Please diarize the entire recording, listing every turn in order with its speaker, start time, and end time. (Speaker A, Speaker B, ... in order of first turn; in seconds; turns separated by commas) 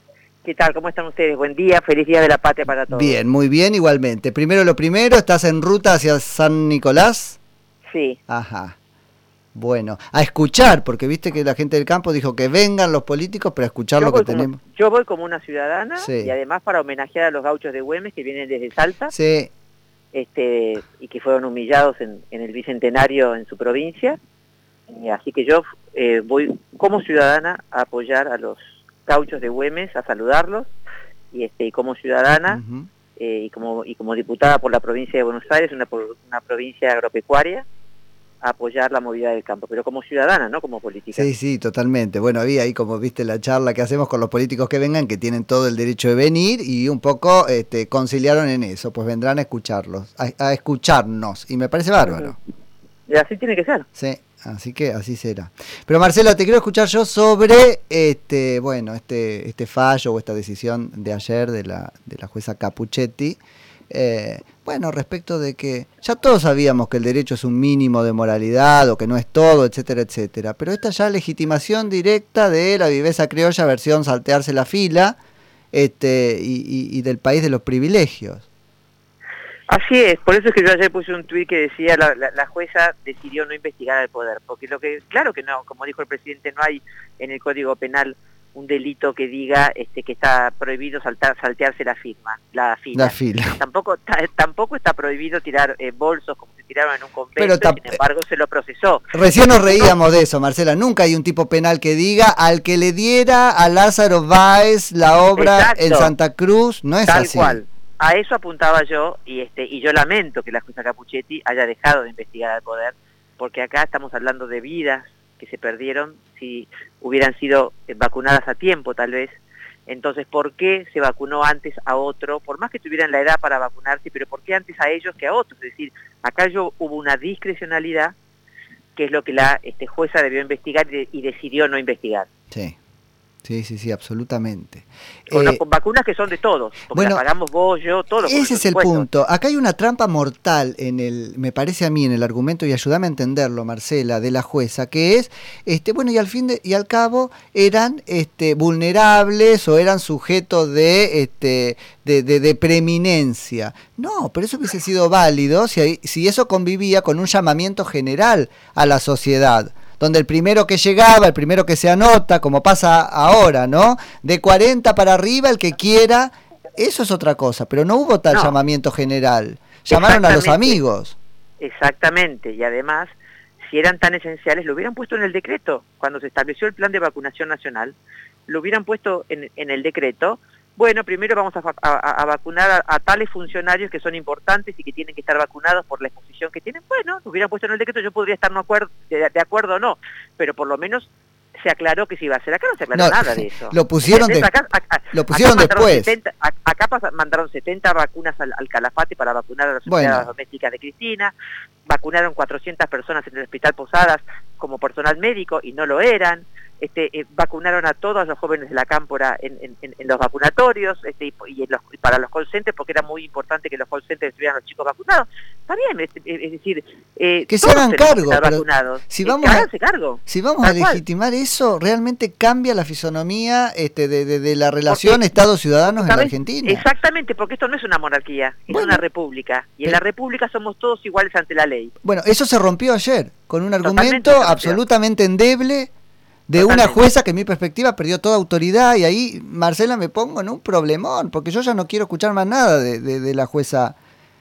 Speaker A: 0.4-3.2, Speaker B: 2.9-7.4, Speaker A: 7.9-8.2, Speaker B: 8.3-8.8, Speaker B: 9.5-14.6, Speaker A: 14.0-19.1, Speaker B: 16.0-16.3, Speaker B: 19.1-19.5, Speaker A: 20.1-24.2, Speaker A: 24.9-30.7, Speaker A: 31.3-32.6, Speaker B: 32.5-32.9, Speaker A: 33.2-37.7, Speaker A: 38.4-41.3, Speaker B: 41.1-52.4, Speaker A: 52.0-52.3, Speaker A: 53.1-53.9, Speaker B: 54.0-75.2, Speaker B: 75.7-78.5, Speaker A: 79.7-99.9, Speaker B: 92.9-93.6, Speaker B: 97.4-98.0, Speaker B: 99.1-107.6, Speaker A: 105.4-106.1, Speaker A: 107.0-128.2, Speaker A: 129.0-132.3, Speaker B: 133.4-135.6, Speaker A: 135.3-139.1, Speaker B: 136.9-137.2, Speaker B: 138.2-171.2, Speaker A: 169.9-170.8, Speaker A: 171.6-178.0, Speaker A: 178.5-191.1, Speaker A: 191.6-201.3, Speaker B: 192.9-194.5, Speaker B: 195.1-196.1, Speaker B: 199.9-200.3, Speaker A: 201.9-221.0, Speaker B: 217.5-219.7, Speaker B: 220.3-226.8, Speaker A: 224.9-225.2, Speaker A: 225.9-231.9, Speaker B: 228.7-229.0, Speaker B: 232.0-235.9, Speaker A: 233.8-234.8, Speaker B: 236.5-244.0, Speaker A: 236.6-237.0